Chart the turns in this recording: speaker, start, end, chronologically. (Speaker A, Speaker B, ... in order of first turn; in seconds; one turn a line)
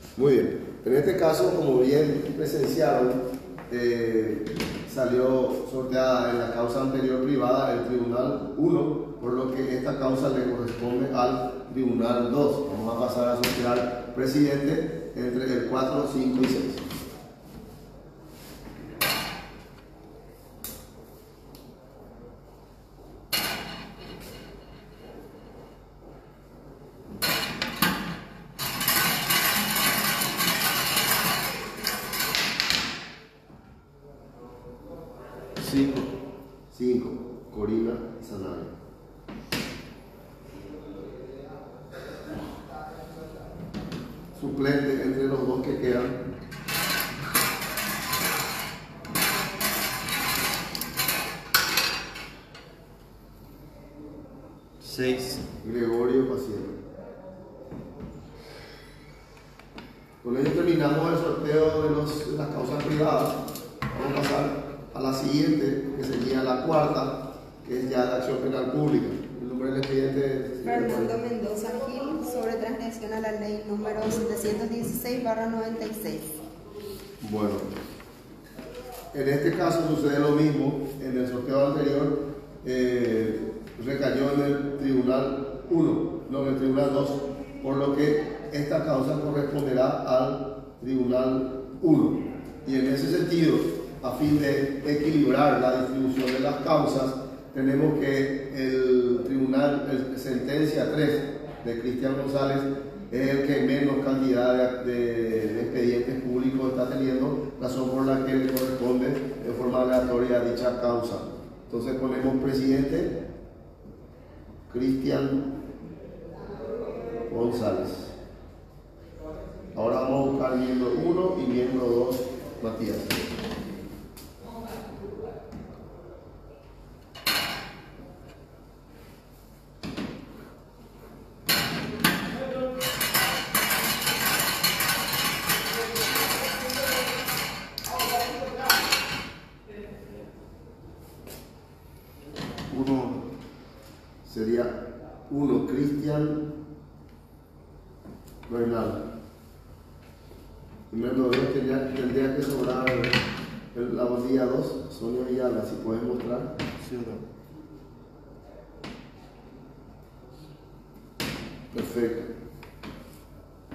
Speaker A: 0.1-16.8
Speaker B: 35.5-36.1
Speaker A: 36.7-38.7
Speaker A: 44.3-46.2
Speaker B: 54.8-55.4
Speaker A: 55.6-56.8
Speaker A: 60.2-63.4
Speaker A: 63.9-71.1
Speaker C: 70.6-76.4
Speaker A: 77.2-77.7
Speaker A: 79.1-113.2
Speaker A: 114.7-115.5
Speaker A: 117.3-118.2
Speaker A: 119.7-123.3
Speaker B: 142.7-143.3
Speaker A: 144.2-146.5
Speaker A: 148.5-149.0
Speaker A: 150.9-153.2
Speaker A: 153.7-156.5
Speaker B: 156.8-157.2
Speaker A: 161.7-162.3